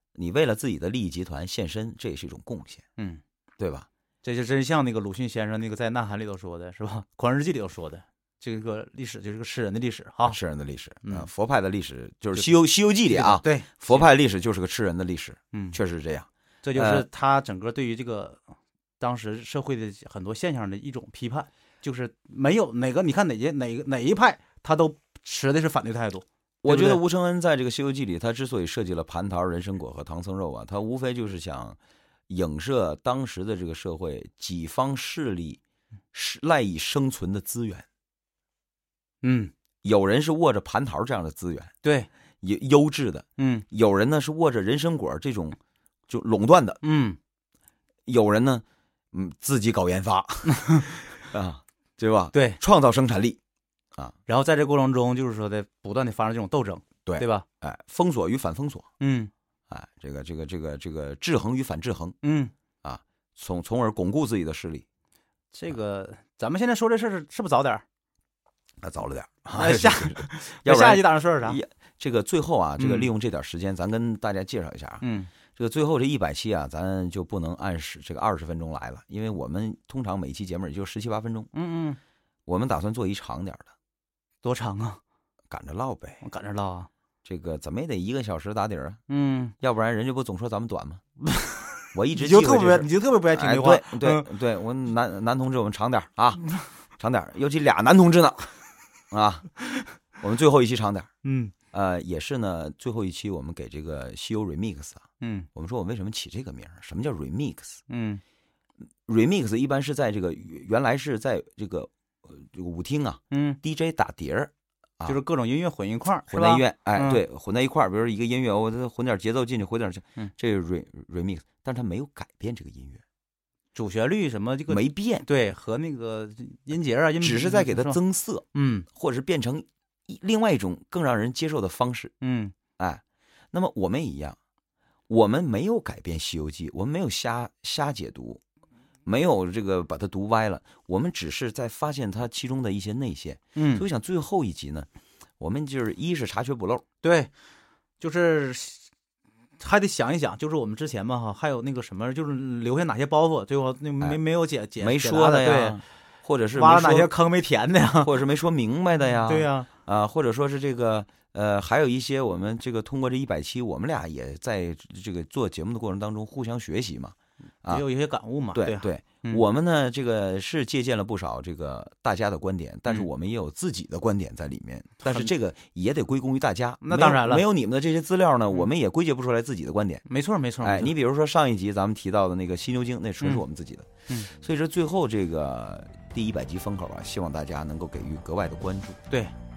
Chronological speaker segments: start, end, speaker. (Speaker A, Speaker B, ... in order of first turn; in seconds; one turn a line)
Speaker A: 0.1-2.8
Speaker B: 3.0-3.2
Speaker A: 3.6-3.9
Speaker B: 4.2-10.4
Speaker A: 10.2-17.0
Speaker B: 13.1-14.1
Speaker B: 15.5-15.8
Speaker B: 16.6-18.4
Speaker B: 19.0-27.0
Speaker A: 26.6-31.8
Speaker A: 32.3-35.6
Speaker A: 36.1-37.8
Speaker B: 39.2-39.5
Speaker A: 39.8-41.7
Speaker B: 41.8-42.1
Speaker A: 42.4-45.6
Speaker B: 43.4-43.6
Speaker A: 46.1-46.8
Speaker B: 46.8-47.2
Speaker A: 48.1-53.4
Speaker B: 50.6-50.8
Speaker B: 52.3-52.6
Speaker B: 54.2-57.5
Speaker A: 57.0-58.9
Speaker B: 59.0-59.3
Speaker A: 59.7-62.2
Speaker B: 62.2-62.5
Speaker A: 62.8-64.8
Speaker B: 65.5-67.8
Speaker A: 68.8-75.0
Speaker B: 69.5-71.6
Speaker B: 72.8-73.1
Speaker B: 75.0-75.3
Speaker A: 75.5-81.5
Speaker B: 81.5-82.0
Speaker A: 82.5-83.7
Speaker B: 84.4-85.0
Speaker A: 85.5-86.2
Speaker B: 86.2-86.9
Speaker A: 87.2-89.0
Speaker B: 89.1-89.5
Speaker A: 89.6-91.0
Speaker B: 91.3-94.2
Speaker A: 91.9-98.5
Speaker A: 99.1-99.5
Speaker A: 100.2-101.1
Speaker B: 101.2-101.5
Speaker A: 101.7-105.0
Speaker B: 105.2-105.5
Speaker A: 105.5-107.8
Speaker B: 107.9-108.2
Speaker A: 109.0-115.2
Speaker B: 113.3-113.6
Speaker B: 115.1-117.2
Speaker A: 116.3-123.0
Speaker B: 123.7-128.0
Speaker A: 124.7-125.2
Speaker A: 127.2-132.1
Speaker B: 128.5-128.9
Speaker B: 132.2-132.5
Speaker A: 132.8-134.4
Speaker A: 135.1-138.4
Speaker A: 139.1-144.9
Speaker B: 143.5-143.8
Speaker A: 145.4-146.8
Speaker B: 147.0-147.3
Speaker B: 148.0-148.8
Speaker B: 149.6-155.8
Speaker A: 154.8-157.1
Speaker B: 156.5-158.1
Speaker A: 158.0-167.8
Speaker B: 159.2-159.7
Speaker B: 167.7-169.4
Speaker A: 168.5-180.0
Speaker B: 175.0-175.3
Speaker B: 176.8-177.4
Speaker B: 180.1-180.9
Speaker A: 180.6-189.0